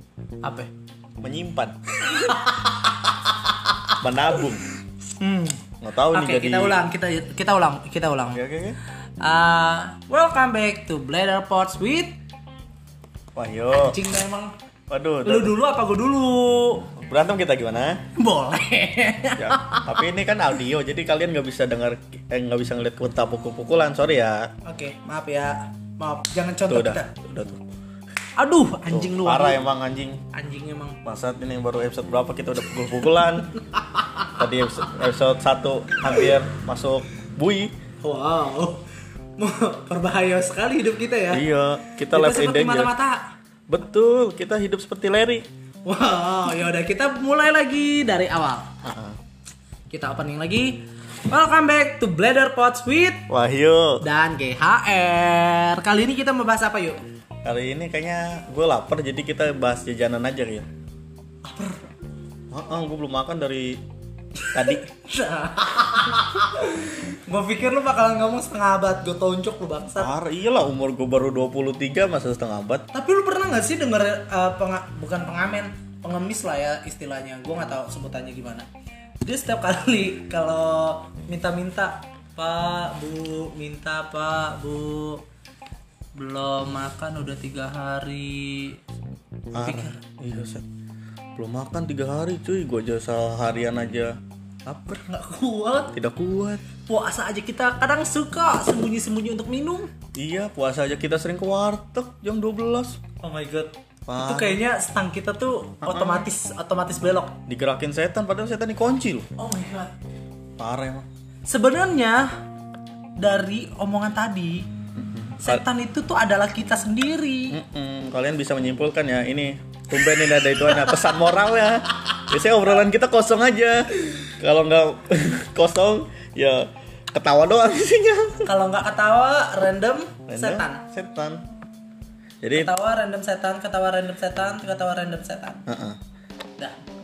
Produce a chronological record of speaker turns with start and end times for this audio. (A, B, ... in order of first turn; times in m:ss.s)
0:00.4-0:00.7 A
0:01.2-0:01.8 B
0:02.0-0:03.9 A
0:04.0-0:04.6 B
0:05.2-0:05.6 A
0:05.8-0:06.8 B
0:06.1-0:08.4 A
0:08.3-0:08.8 B
0:09.2-0:12.2 A
0:13.3-0:14.0 B
0:13.7-0:14.5 A
0:14.9-0:15.5 B
0:15.2-0:16.9 A
0:17.0-0:18.0 B
0:18.1-0:20.0 A
0:19.4-0:24.5 B
0:24.6-0:27.1 A
0:26.7-0:27.6 B
0:28.4-0:29.6 A
0:28.9-0:30.2 B
0:30.3-0:31.0 A
0:31.0-0:33.6 B
0:33.7-0:34.4 A
0:34.3-0:37.7 B
0:38.0-0:38.9 A
0:39.4-0:41.4 A
0:41.3-0:42.9 B
0:42.1-0:43.2 A
0:43.7-0:45.4 B
0:45.8-0:48.7 A
0:48.8-0:49.2 B
0:49.9-0:53.2 A
0:53.3-0:54.0 B
0:54.0-0:57.0 A
0:57.4-1:00.7 B
1:01.4-1:01.9 A
1:02.5-1:03.8 B
1:04.4-1:10.1 A
1:04.5-1:04.9 B
1:10.0-1:12.8 B
1:12.9-1:18.7 A
1:19.2-1:25.2 A
1:26.2-1:28.8 A
1:29.5-1:30.6 B
1:29.6-1:30.0 A
1:31.4-1:35.0 B
1:35.0-1:35.9 A
1:35.9-1:36.6 B
1:36.8-1:39.9 A
1:40.1-1:43.0 B
1:43.2-1:47.4 A
1:44.1-1:44.6 B
1:45.8-1:46.2 B
1:47.5-1:49.3 B
1:49.4-1:49.9 A
1:50.6-1:51.1 B
1:51.5-1:52.4 A
1:53.2-1:54.7 A
1:54.9-1:55.6 B
1:55.4-1:57.6 A
1:57.5-2:08.5 B
2:08.4-2:10.8 A
2:10.3-2:11.4 B
2:12.4-2:12.7 B
2:12.5-2:15.6 A
2:15.6-2:16.0 B